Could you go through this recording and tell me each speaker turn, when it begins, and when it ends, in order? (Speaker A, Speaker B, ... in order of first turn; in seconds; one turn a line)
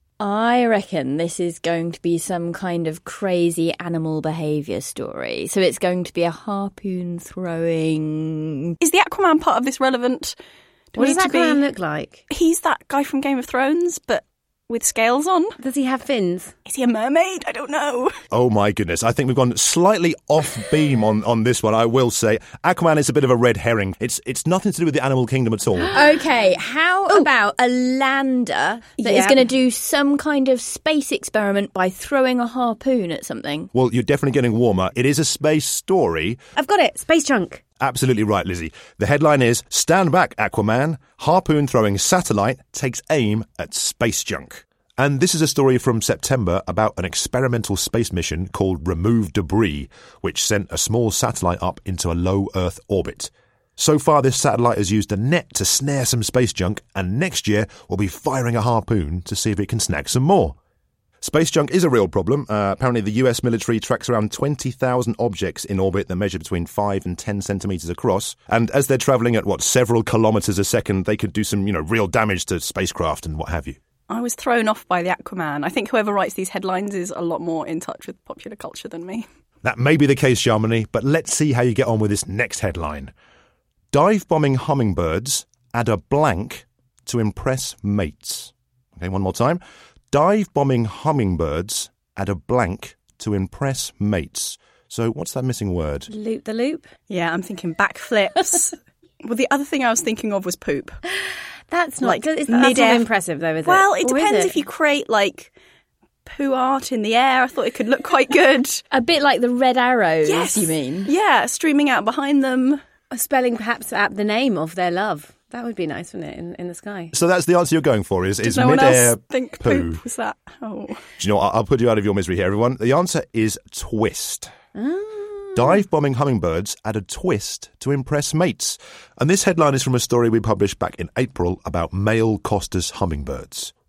Speaker A: 0.2-8.8
Speaker B: 8.8-10.3
Speaker B: 10.9-11.7
Speaker C: 10.9-12.2
Speaker B: 12.3-15.6
Speaker C: 15.6-16.5
Speaker B: 16.6-18.2
Speaker D: 18.3-25.9
Speaker A: 25.9-33.7
Speaker C: 29.0-29.4
Speaker D: 33.7-36.4
Speaker C: 36.5-37.6
Speaker D: 37.8-60.5
Speaker D: 61.2-73.8
Speaker B: 74.1-79.2
Speaker D: 79.6-83.1
Speaker D: 83.9-96.1
Speaker C: 96.1-96.9
Speaker B: 97.1-101.0
Speaker C: 101.7-104.6
Speaker B: 102.0-105.5
Speaker B: 106.2-108.8
Speaker A: 108.9-111.1
Speaker B: 110.2-112.8
Speaker C: 113.1-117.1
Speaker D: 117.1-120.0
Speaker B: 118.4-121.0
Speaker D: 121.2-124.5
Speaker C: 124.8-125.8
Speaker D: 125.5-133.7